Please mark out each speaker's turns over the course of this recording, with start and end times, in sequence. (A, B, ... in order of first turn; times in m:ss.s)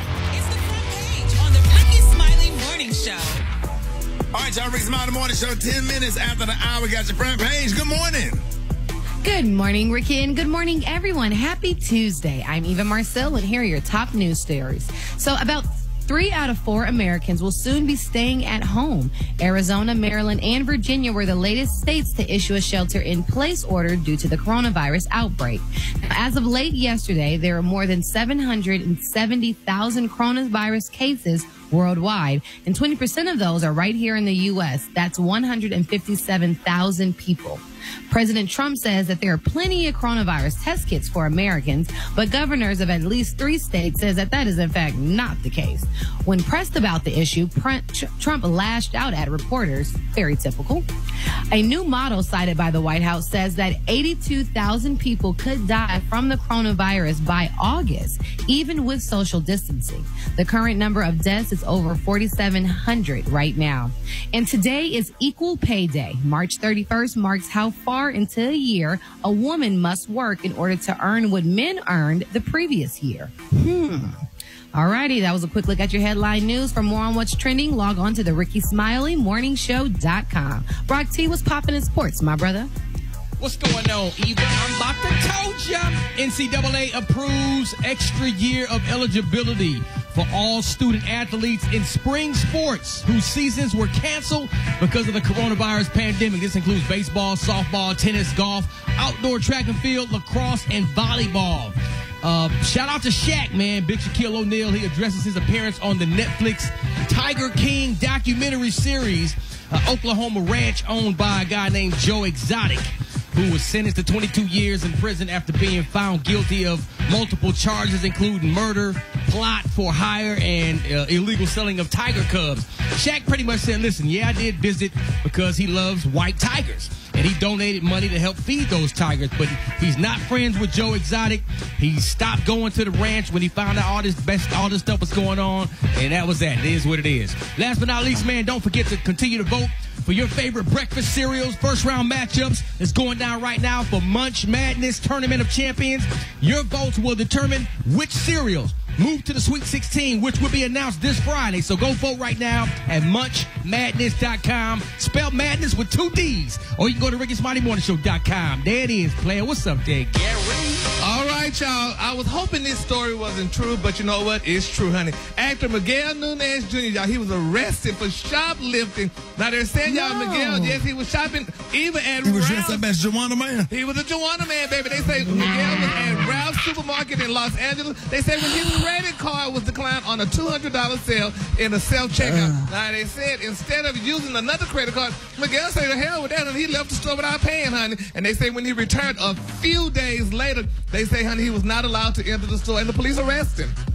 0:00.3-0:03.4 A
0:04.3-0:08.4 B
0:09.2-0:50.9 C
0:51.5-1:14.2 C
1:14.7-1:22.7 C
1:23.4-2:40.9 D
2:41.0-2:52.8 E
2:49.8-2:50.8 C
2:52.2-2:53.7 B
2:53.7-3:13.8 E
2:55.4-2:56.3 C